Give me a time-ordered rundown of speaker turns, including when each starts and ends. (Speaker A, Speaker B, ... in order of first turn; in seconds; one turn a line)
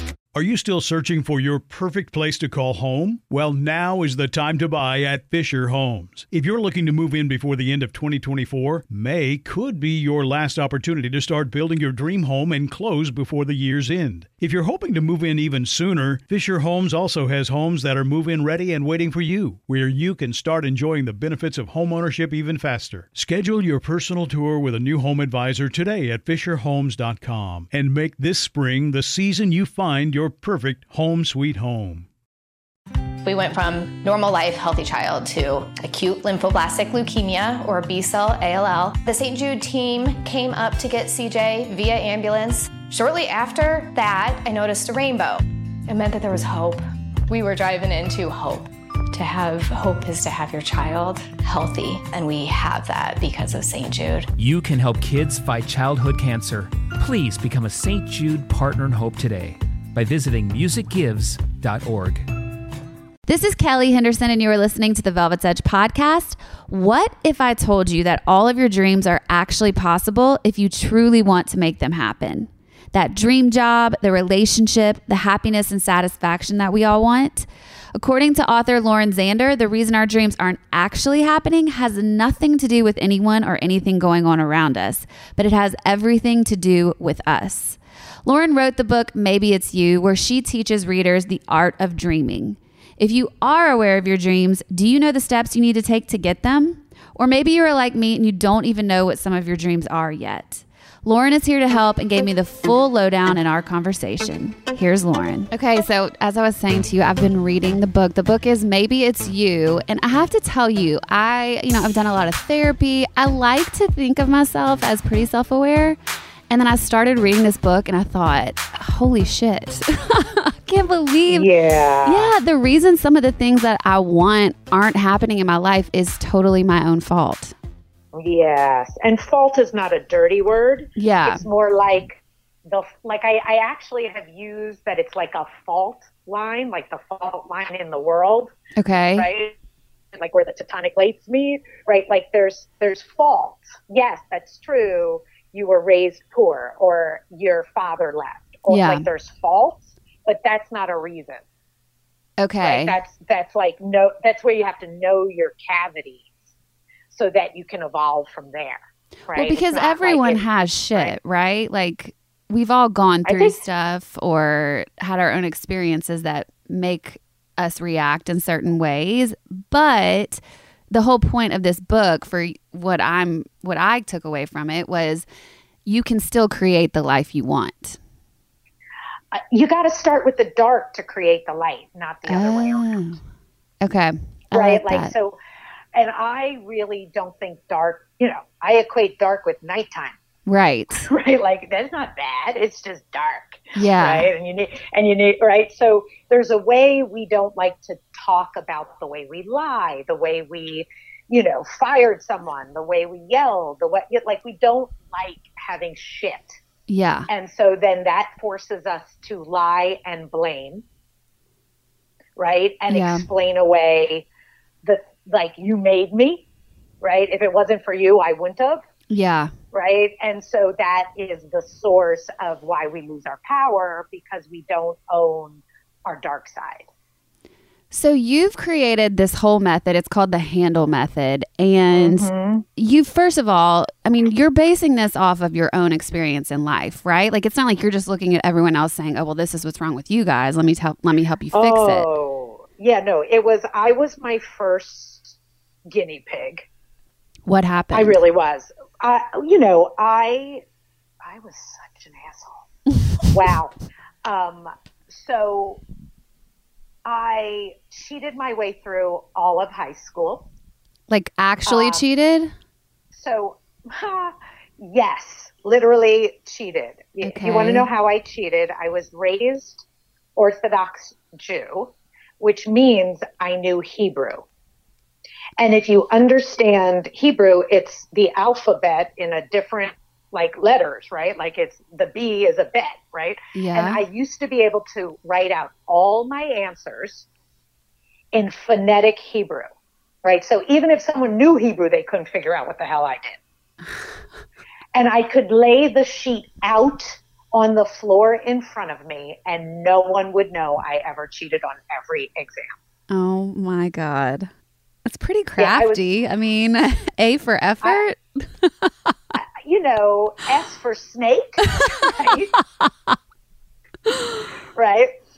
Speaker A: 0.3-32.1
Speaker B: 33.2-54.3
Speaker C: 54.4-62.3
Speaker D: 63.2-116.0
Speaker D: 116.5-121.5
Speaker E: 121.3-122.3
Speaker D: 122.0-127.5
Speaker E: 128.1-138.5
Speaker D: 131.0-131.4
Speaker D: 138.8-139.3
Speaker E: 139.2-139.5
Speaker E: 140.1-151.4
Speaker D: 148.7-149.1
Speaker D: 152.4-153.0
Speaker E: 152.6-156.4
Speaker E: 157.1-161.1
Speaker D: 159.3-175.2
Speaker E: 163.2-163.6
Speaker D: 175.8-178.0
Speaker E: 179.3-182.9
Speaker D: 182.3-183.2
Speaker D: 183.8-185.1
Speaker E: 184.5-185.4
Speaker E: 185.9-190.2
Speaker D: 190.4-191.1
Speaker E: 190.9-206.6
Speaker D: 193.7-194.3
Speaker D: 206.9-207.3
Speaker E: 207.3-210.8
Speaker E: 212.3-214.3
Speaker D: 212.9-213.2
Speaker E: 214.8-216.4
Speaker E: 217.0-218.8
Speaker D: 219.1-219.5
Speaker E: 219.7-226.9
Speaker D: 227.9-242.1
Speaker E: 231.9-232.7
Speaker E: 241.5-245.4
Speaker E: 245.9-246.7
Speaker D: 247.4-248.2
Speaker E: 247.9-250.6
Speaker E: 251.2-252.7
Speaker E: 253.2-255.8
Speaker E: 257.0-260.5
Speaker D: 261.1-262.5
Speaker E: 261.6-262.1
Speaker E: 263.1-269.8
Speaker D: 267.2-267.9
Speaker E: 270.4-274.4
Speaker E: 275.6-287.3
Speaker D: 283.5-284.0
Speaker E: 288.3-289.7
Speaker E: 290.2-293.4
Speaker E: 294.9-302.7
Speaker D: 303.1-304.5
Speaker D: 305.1-308.9
Speaker E: 305.6-306.0
Speaker E: 309.4-312.5
Speaker E: 314.7-315.1